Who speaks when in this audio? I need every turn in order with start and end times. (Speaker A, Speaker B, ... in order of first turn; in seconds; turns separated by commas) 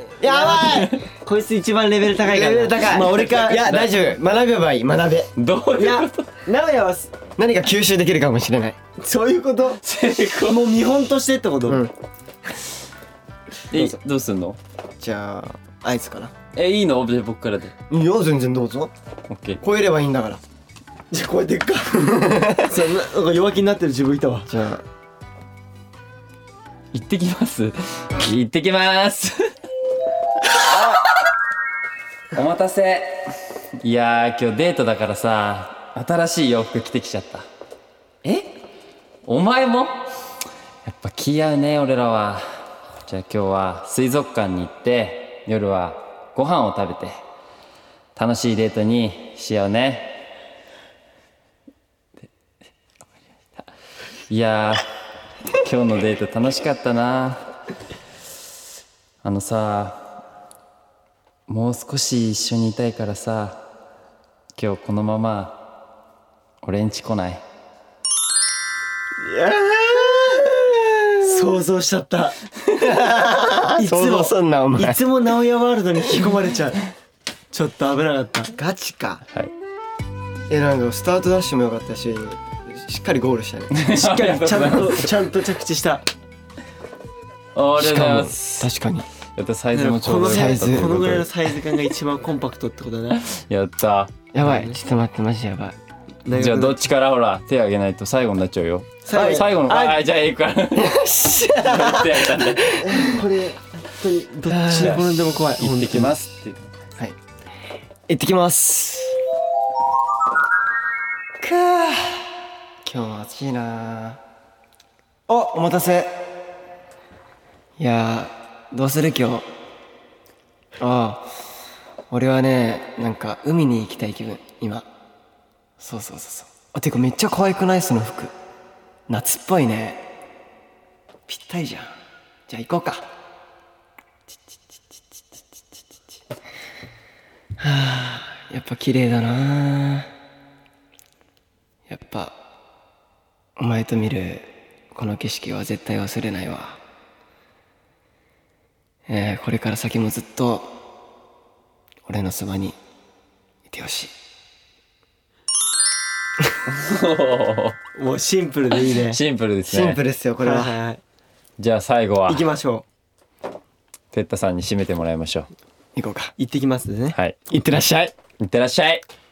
Speaker A: 0.2-0.9, Speaker B: 0.2-3.7, Speaker C: 0.6-1.0, Speaker A: 2.1-5.3, Speaker C: 3.5-3.9, Speaker C: 5.4-6.3, Speaker B: 5.8-7.1, Speaker A: 7.4-8.8, Speaker B: 9.0-9.8, Speaker C: 9.8-10.7, Speaker B: 10.4-11.8, Speaker A: 11.7-11.9, Speaker C: 13.7-14.6, Speaker A: 15.0-16.3, Speaker C: 16.5-17.7, Speaker A: 17.9-18.9, Speaker C: 19.3-19.6, Speaker A: 19.6-20.4, Speaker B: 21.1-24.5, Speaker A: 22.1-22.8, Speaker A: 24.5-24.8, Speaker C: 26.9-29.4, Speaker C: 30.5-31.1, Speaker C: 32.3-33.2, Speaker C: 33.8-37.5, Speaker C: 38.2-38.5, Speaker C: 39.2-40.0, Speaker C: 40.9-42.5, Speaker C: 43.0-47.2, Speaker C: 48.1-50.2, Speaker C: 54.3-54.8, Speaker C: 55.6-57.4, Speaker C: 59.2-60.0, Speaker C: 61.5-63.6, Speaker C: 64.5-65.6, Speaker C: 66.6-67.4, Speaker B: 69.2-70.4, Speaker A: 69.9-71.0, Speaker B: 71.2-72.3, Speaker A: 72.8-75.0, Speaker B: 73.8-76.8, Speaker B: 77.5-78.5, Speaker A: 78.5-79.2, Speaker A: 80.5-83.8, Speaker C: 83.7-85.1, Speaker B: 83.9-86.0, Speaker C: 87.5-88.7, Speaker A: 87.8-89.0, Speaker C: 89.4-91.3, Speaker B: 89.7-93.2, Speaker A: 90.3-91.0, Speaker C: 93.2-94.2, Speaker A: 94.3-95.8, Speaker B: 94.4-94.7, Speaker B: 96.2-96.8, Speaker C: 96.3-103.0, Speaker B: 99.0-100.0, Speaker A: 100.8-103.6, Speaker B: 103.9-106.2, Speaker A: 104.5-105.0, Speaker C: 104.7-106.7, Speaker A: 108.1-109.2, Speaker A: 111.4-112.3, Speaker A: 112.8-114.2, Speaker A: 115.3-116.2, Speaker A: 117.8-119.5, Speaker A: 120.8-121.3, Speaker A: 122.1-124.9, Speaker A: 125.8-128.3, Speaker A: 129.1-130.0, Speaker A: 131.3-131.9, Speaker A: 132.5-133.1, Speaker A: 137.6-140.1, Speaker A: 141.9-142.4, Speaker A: 143.6-146.8, Speaker A: 149.1-150.7, Speaker A: 152.1-152.8, Speaker A: 153.7-154.1, Speaker C: 156.7-157.8, Speaker B: 157.9-159.2, Speaker C: 158.9-160.0, Speaker A: 159.7-160.8, Speaker B: 160.4-161.0, Speaker C: 161.6-162.4, Speaker B: 162.3-162.8, Speaker C: 164.1-165.5, Speaker A: 165.9-166.3, Speaker B: 166.4-167.2, Speaker A: 167.5-168.1, Speaker C: 168.4-169.0